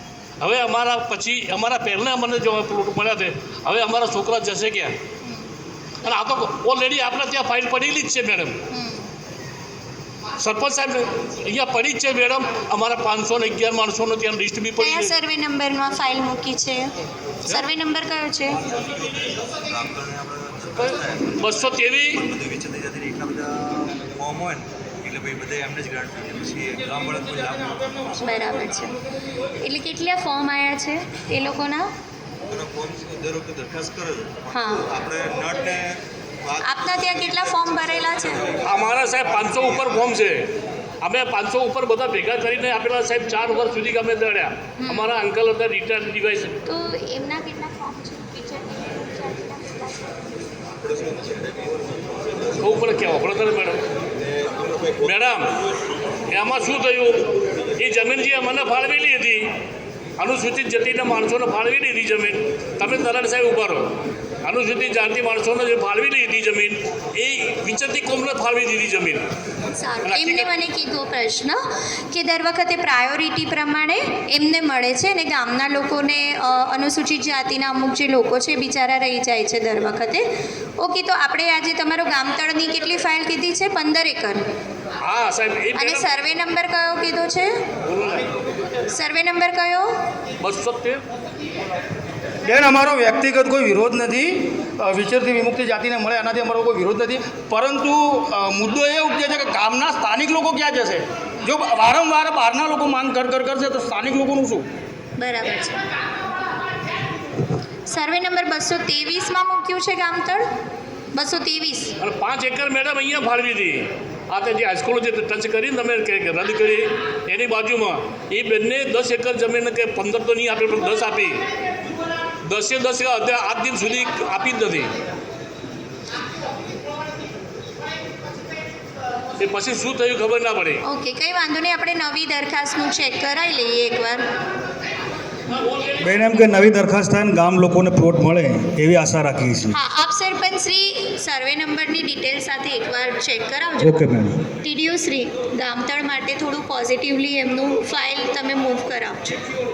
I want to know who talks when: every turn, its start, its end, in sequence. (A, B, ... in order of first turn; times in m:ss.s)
0:00.4-0:05.0 A
0:06.0-0:08.6 A
0:08.7-0:09.1 B
0:10.4-0:15.1 A
0:14.8-0:16.9 B
0:17.4-0:18.6 B
0:18.7-0:21.4 C
0:21.4-0:22.3 A
0:22.2-0:28.1 C
0:28.1-0:29.0 B
0:29.6-0:31.9 B
0:32.5-0:39.8 C
0:34.5-0:34.9 B
0:36.6-0:38.6 B
0:38.6-0:46.6 A
0:44.8-0:45.1 B
0:46.6-0:50.1 B
0:50.9-0:52.4 C
0:52.6-0:53.8 A
0:55.0-0:55.6 A
0:56.3-0:59.5 A
1:00.2-1:03.9 A
1:04.4-1:09.2 A
1:09.7-1:20.2 B
1:10.0-1:10.5 A
1:20.8-1:24.4 B
1:25.0-1:26.2 A
1:25.8-1:27.7 B
1:27.8-1:28.3 A
1:28.9-1:29.9 B
1:30.4-1:31.0 A
1:32.5-1:44.7 D
1:45.2-1:45.8 B
1:47.9-1:50.5 B
1:51.2-1:52.0 B
1:52.0-2:01.5 A
2:02.4-2:05.0 A
2:09.4-2:10.8 A
2:10.8-2:14.3 B
2:16.0-2:19.8 E
2:19.7-2:24.0 B
2:23.8-2:24.4 E
2:24.6-2:29.4 B